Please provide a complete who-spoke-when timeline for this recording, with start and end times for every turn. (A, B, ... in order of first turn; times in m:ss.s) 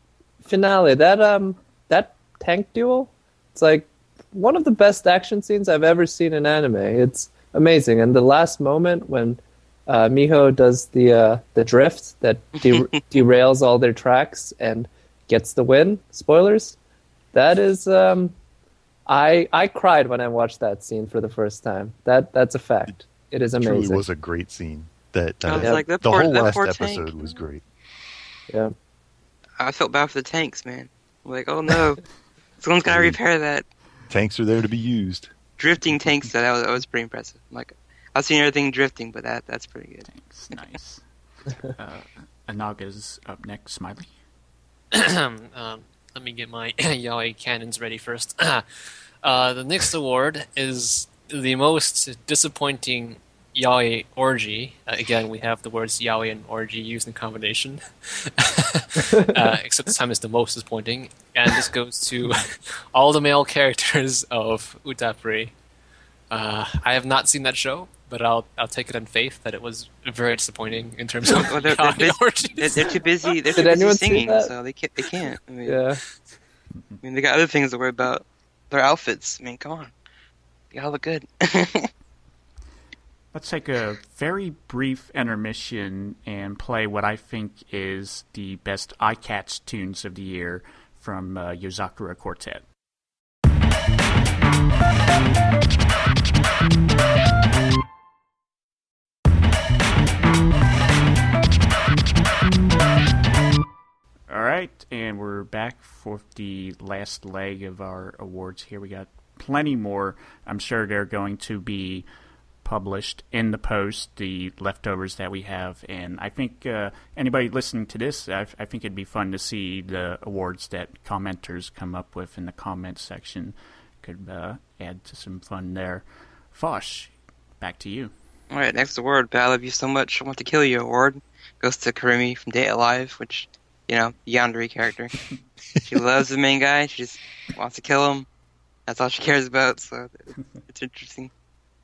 0:00.4-0:16.8 A
0:12.6-0:12.9 B
0:17.3-0:18.3 A
0:19.1-0:24.0 A
0:23.6-0:27.6 C
0:25.4-0:27.1 B
0:25.6-0:25.8 A
0:29.6-0:32.0 B
0:32.6-0:33.6 B
0:32.8-0:33.2 C
0:34.1-0:35.3 C
0:35.6-0:40.1 B
0:40.1-0:41.0 D
0:41.6-0:44.1 D
0:44.9-1:05.5 E
1:06.3-1:13.5 E
1:11.3-1:15.8 B
1:13.6-1:14.5 A
1:15.6-1:16.0 A
1:16.8-1:17.0 D
1:17.0-1:19.9 B
1:20.7-1:21.9 B
1:23.3-1:32.6 D
1:44.3-1:52.1 D
1:52.6-2:08.1 D
2:08.5-2:15.2 B
2:15.8-2:18.3 B
2:18.9-2:21.3 B